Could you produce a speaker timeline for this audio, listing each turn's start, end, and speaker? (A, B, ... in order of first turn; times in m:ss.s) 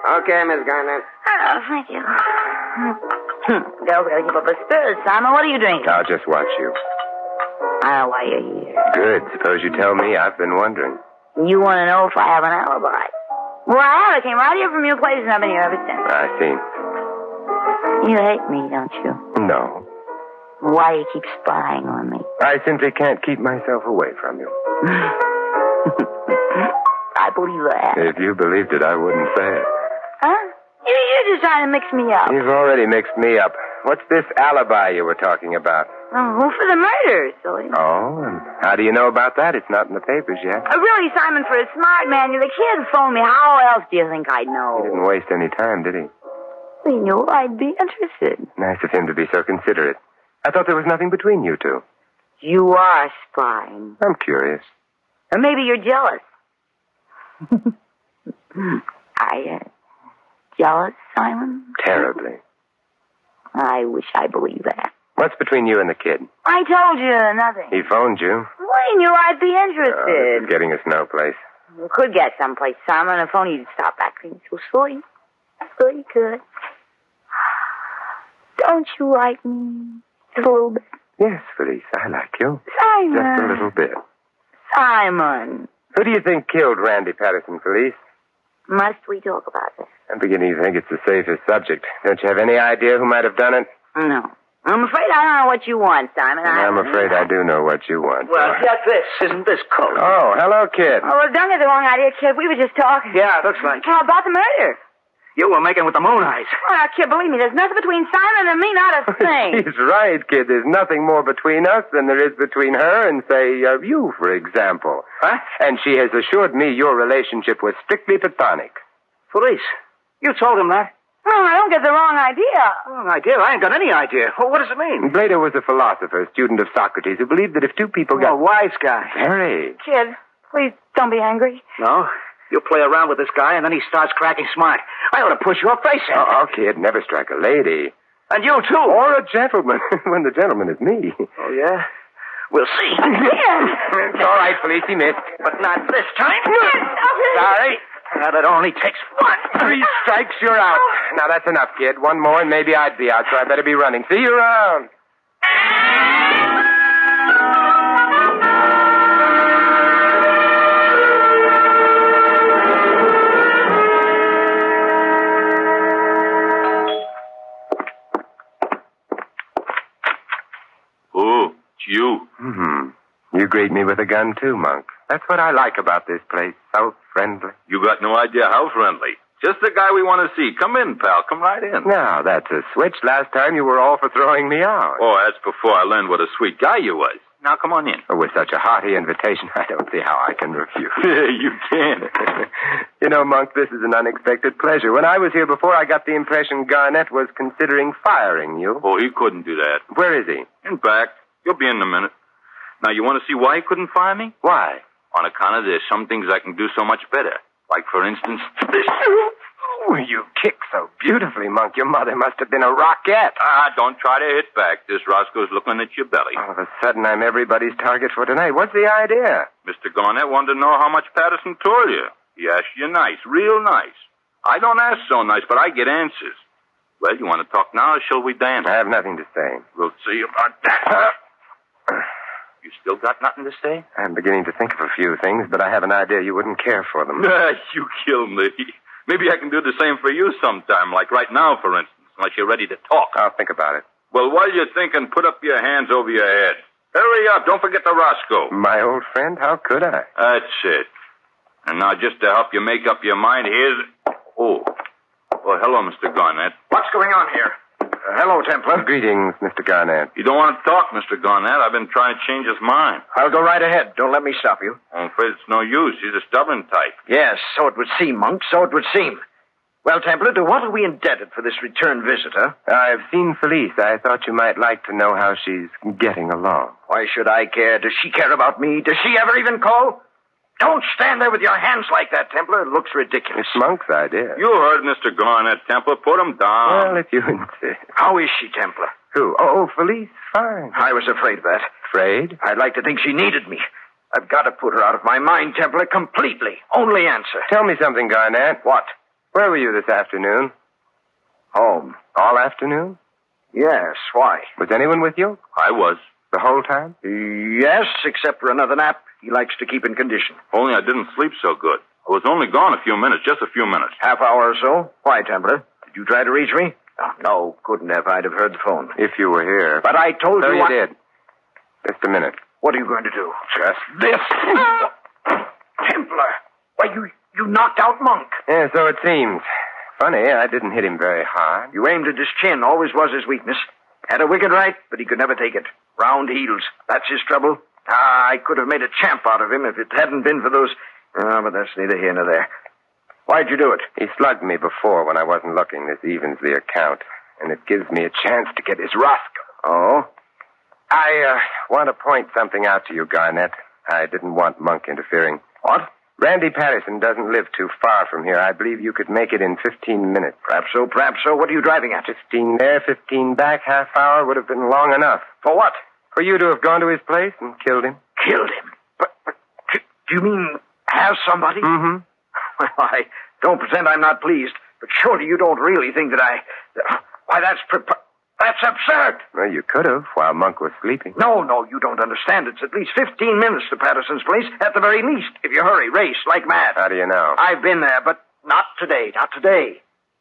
0:01.2-0:06.0 A
0:05.8-0:06.8 B
0:07.8-0:08.8 A
0:08.8-0:11.0 B
0:11.4-0:13.1 A
0:13.6-0:16.0 A
0:16.0-0:16.6 B
0:18.0-0:19.2 A
0:19.3-0:19.8 B
0:20.6-0:22.3 A
0:22.4-0:24.5 B
0:24.9-0:25.1 A
0:26.5-0:28.0 A
0:27.9-0:29.7 B
0:30.2-0:32.4 A
0:32.3-0:35.9 B
0:36.1-0:37.8 A
0:37.7-0:40.6 B
0:40.7-0:45.0 A
0:44.8-0:46.1 B
0:46.8-0:48.5 A
0:48.6-0:51.8 B
0:52.4-0:54.0 A
0:54.0-0:54.6 B
0:55.3-0:56.2 A
0:58.5-0:59.6 A
1:00.6-1:01.7 A
1:01.8-1:02.4 B
1:03.5-1:04.9 A
1:05.1-1:06.3 B
1:06.4-1:07.8 A
1:07.7-1:08.5 B
1:08.6-1:10.5 A
1:09.9-1:11.4 B
1:11.7-1:15.0 A
1:15.7-1:16.4 A
1:18.6-1:20.8 A
1:21.2-1:24.0 B
1:22.7-1:23.7 A
1:24.7-1:25.7 A
1:25.9-1:28.0 B
1:28.7-1:29.9 A
1:30.1-1:33.7 B
1:33.9-1:37.2 A
1:36.4-1:38.6 B
1:38.2-1:40.1 C
1:39.9-1:41.1 B
1:41.0-1:44.8 A
1:43.1-1:43.9 C
1:45.4-1:46.5 C
1:46.6-1:49.6 A
1:49.2-1:58.8 B
1:59.3-1:59.7 C
2:00.2-2:00.9 C
2:01.2-2:02.8 A
2:02.9-2:05.1 C
2:05.0-2:08.4 B
2:08.1-2:09.2 C
2:09.1-2:09.8 B
2:09.8-2:11.6 A
2:11.8-2:16.3 C
2:16.1-2:17.9 B
2:18.3-2:19.0 C
2:18.9-2:21.3 B
2:21.4-2:21.9 C
2:22.5-2:23.7 C
2:23.8-2:25.3 B
2:25.4-2:29.7 C
2:29.5-2:34.9 B
2:51.1-2:52.2 D
2:52.4-2:57.6 B
2:57.7-3:01.9 D
3:01.8-3:05.0 B
3:05.0-3:08.0 D
3:08.1-3:11.0 B
3:11.0-3:12.4 D
3:13.0-3:18.8 B
3:18.8-3:19.8 D
3:19.9-3:20.5 B
3:20.6-3:22.1 D
3:22.8-3:24.3 D
3:24.4-3:24.8 B
3:25.1-3:29.0 D
3:29.6-3:33.4 B
3:33.4-3:36.4 D
3:36.4-3:39.5 B
3:39.6-3:46.4 D
3:47.0-3:48.7 D
3:48.6-3:49.6 B
3:49.8-3:51.1 D
3:52.6-3:53.8 D
3:53.9-3:57.3 B
3:57.2-4:03.2 D
4:03.1-4:03.9 B
4:04.0-4:08.5 D
4:08.5-4:10.1 B
4:10.2-4:10.9 D
4:11.6-4:14.7 D
4:15.4-4:16.6 D
4:16.7-4:18.9 E
4:18.7-4:20.1 B
4:20.2-4:23.0 D
4:23.1-4:24.8 E
4:24.9-4:27.0 D
4:27.1-4:29.2 E
4:29.8-4:32.5 E
4:32.6-4:36.7 B
4:36.9-4:40.0 E
4:40.6-4:43.6 E
4:43.3-4:44.4 B
4:44.4-4:47.0 D
4:46.6-4:47.8 B
4:48.0-4:48.9 E
4:49.1-4:50.8 B
4:50.7-4:51.7 E
4:51.8-4:52.4 B
4:52.4-4:57.5 E
4:57.5-4:58.6 B
4:58.6-4:58.9 E
4:59.3-5:00.5 B
5:01.5-5:02.0 E
5:02.1-5:03.0 B
5:03.5-5:04.5 E
5:04.6-5:05.4 B
5:05.6-5:06.0 D
5:06.3-5:06.9 B
5:07.0-5:10.4 E
5:10.5-5:14.0 D
5:14.0-5:18.9 E
5:19.0-5:20.9 B
5:19.8-5:20.8 E
5:21.8-5:22.4 B
5:22.5-5:24.9 E
5:25.8-5:28.4 E
5:28.5-5:29.4 B
5:30.0-5:31.7 B
5:31.7-5:42.5 E
5:43.3-5:43.9 E
5:44.0-5:49.4 B
5:49.6-5:50.1 E
5:50.9-5:55.5 B
5:56.2-6:00.4 B
6:00.5-6:02.0 E
6:02.0-6:05.3 B
6:05.4-6:05.8 E
6:06.1-6:08.0 B
6:08.2-6:09.1 E
6:09.7-6:11.7 E
6:11.6-6:12.0 B
6:12.6-6:19.2 E
6:19.3-6:21.2 B
6:21.2-6:26.8 E
6:26.8-6:27.4 B
6:27.4-6:29.8 E